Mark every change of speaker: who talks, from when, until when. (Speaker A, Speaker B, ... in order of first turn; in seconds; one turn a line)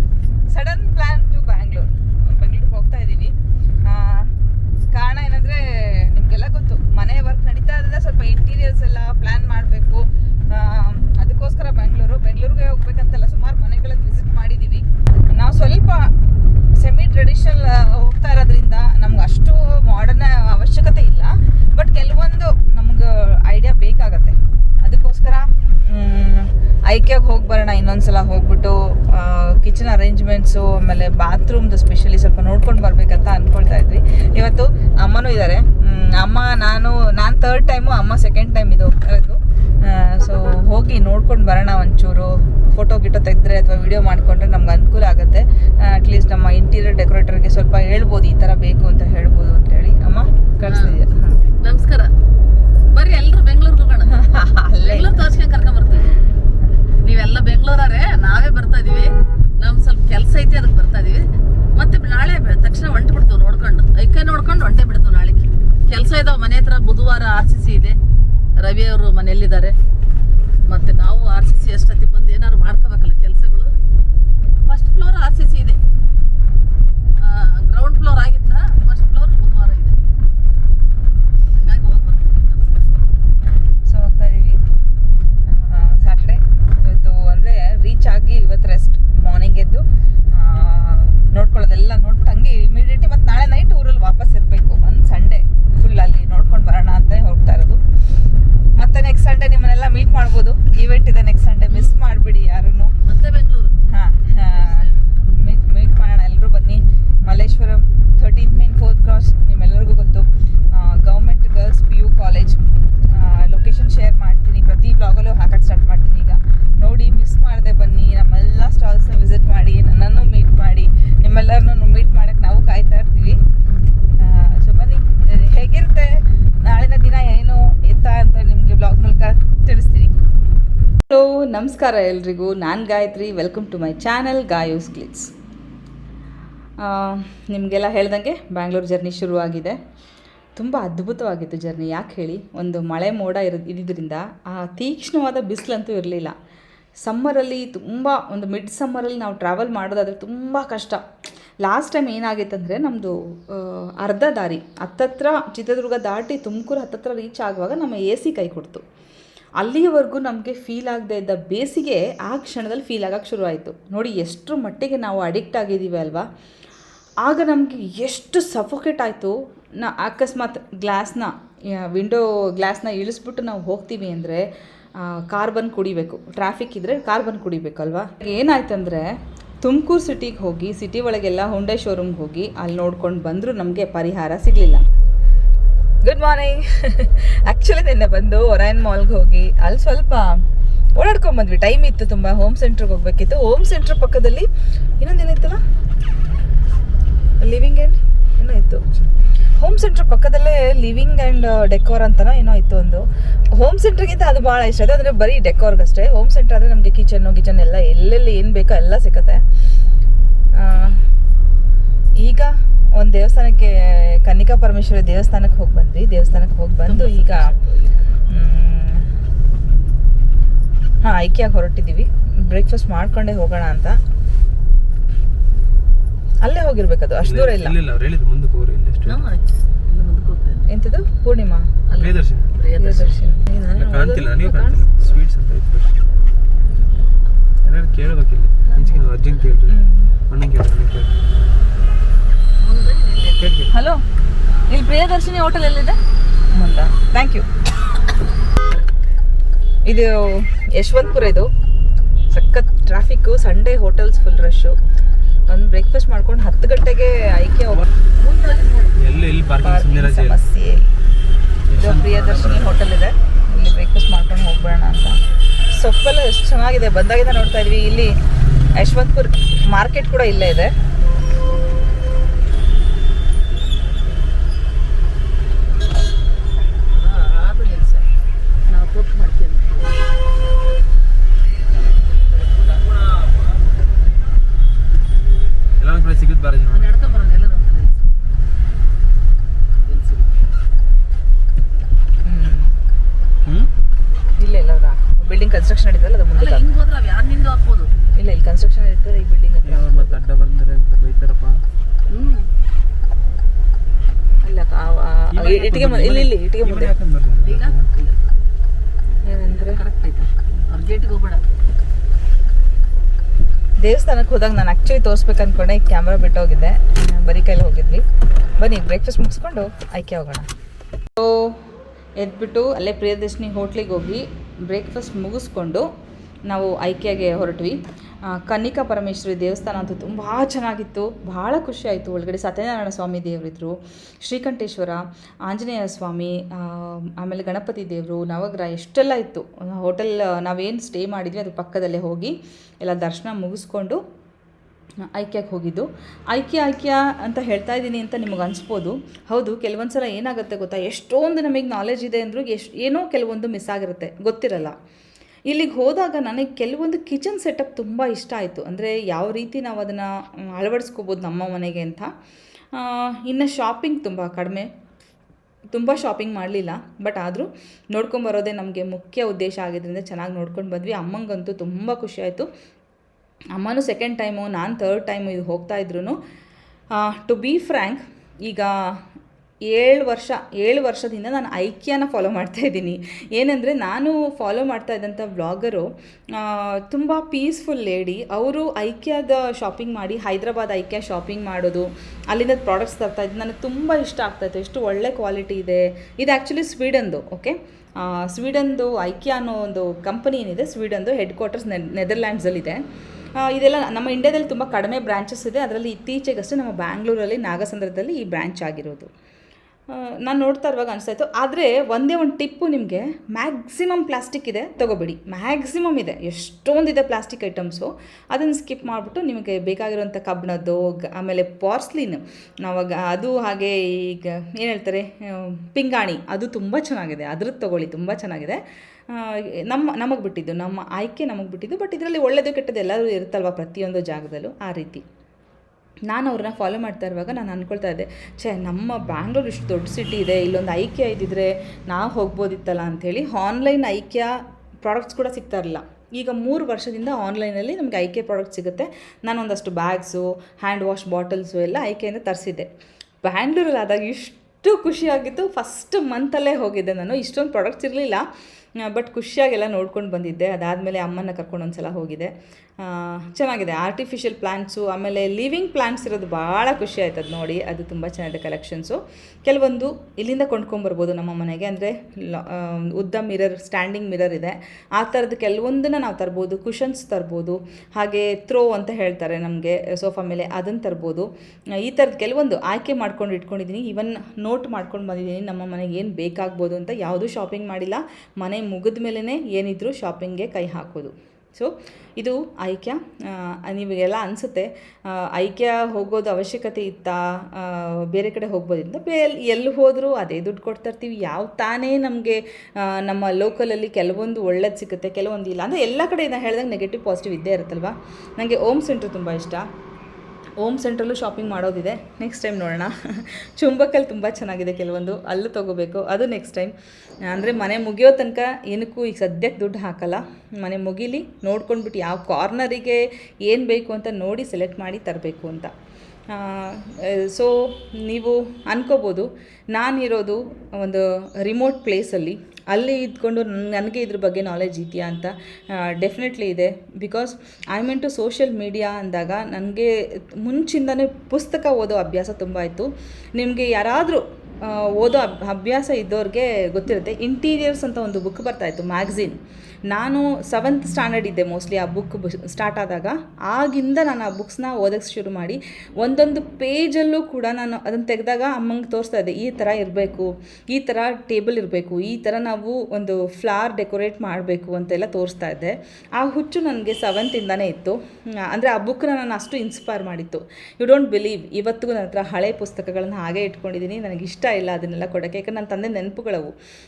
Speaker A: 0.5-3.3
Speaker A: 3.8-4.3
Speaker A: 4.9-16.1
Speaker A: 16.7-51.4
Speaker B: 50.6-51.0
Speaker B: 51.6-52.1
Speaker B: 52.9-56.1
Speaker A: 54.1-55.2
Speaker B: 57.0-68.0
Speaker B: 68.6-69.7
Speaker B: 70.7-73.8
Speaker B: 74.6-75.8
Speaker B: 77.2-80.0
Speaker B: 81.5-83.1
Speaker A: 83.8-84.6
Speaker A: 85.5-97.8
Speaker A: 98.8-102.9
Speaker B: 101.7-102.0
Speaker B: 103.0-103.7
Speaker A: 103.9-123.4
Speaker B: 104.5-104.9
Speaker A: 124.2-130.2
Speaker A: 131.1-135.3
Speaker A: 136.8-139.8
Speaker A: 140.6-146.3
Speaker A: 147.0-151.0
Speaker A: 151.6-158.8
Speaker A: 159.6-166.3
Speaker A: 167.2-184.8
Speaker A: 186.0-194.5
Speaker A: 195.0-195.6
Speaker A: 197.4-198.8
Speaker A: 199.6-209.4
Speaker A: 210.5-211.0
Speaker A: 212.2-217.5
Speaker B: 216.8-218.2
Speaker A: 218.3-219.1
Speaker A: 221.0-224.0
Speaker A: 226.4-227.8
Speaker C: 227.2-229.2
Speaker B: 229.1-230.7
Speaker A: 230.7-231.7
Speaker B: 231.9-233.2
Speaker C: 231.9-232.5
Speaker A: 232.8-234.8
Speaker C: 233.8-236.0
Speaker C: 237.6-241.1
Speaker B: 238.7-239.1
Speaker A: 239.7-240.2
Speaker B: 242.6-243.4
Speaker C: 243.4-243.7
Speaker A: 243.7-244.0
Speaker A: 244.7-246.0
Speaker A: 246.5-247.5
Speaker A: 249.8-251.5
Speaker A: 252.3-254.8
Speaker A: 255.5-257.8
Speaker B: 258.2-259.1
Speaker C: 259.0-260.4
Speaker A: 259.6-260.9
Speaker C: 261.7-262.9
Speaker A: 261.8-265.2
Speaker A: 265.7-268.1
Speaker A: 268.8-270.7
Speaker B: 273.5-274.2
Speaker B: 276.9-278.1
Speaker B: 278.7-280.0
Speaker B: 281.9-282.9
Speaker C: 285.8-286.9
Speaker B: 286.7-288.0
Speaker B: 289.8-290.3
Speaker A: 292.2-292.7
Speaker C: 293.4-293.7
Speaker A: 294.4-296.6
Speaker B: 296.4-297.9
Speaker A: 298.1-300.2
Speaker C: 299.6-301.6
Speaker B: 302.1-302.5
Speaker A: 304.4-306.9
Speaker C: 305.3-307.9
Speaker B: 307.4-308.2
Speaker A: 309.2-309.8
Speaker B: 309.4-311.4
Speaker A: 313.8-318.0
Speaker A: 318.6-320.5
Speaker A: 321.1-321.6
Speaker A: 322.2-325.9
Speaker A: 326.5-344.0
Speaker A: 345.1-354.8
Speaker A: 355.5-362.1
Speaker A: 362.7-364.7
Speaker A: 365.7-372.5
Speaker A: 373.5-376.2
Speaker A: 376.9-378.7
Speaker A: 379.7-402.8
Speaker A: 403.4-409.1
Speaker A: 409.9-435.0
Speaker A: 436.1-452.7
Speaker A: 453.2-458.2
Speaker A: 458.8-481.3
Speaker A: 481.8-509.6
Speaker A: 510.6-516.7
Speaker A: 517.2-525.7
Speaker A: 526.3-549.4
Speaker A: 549.9-576.5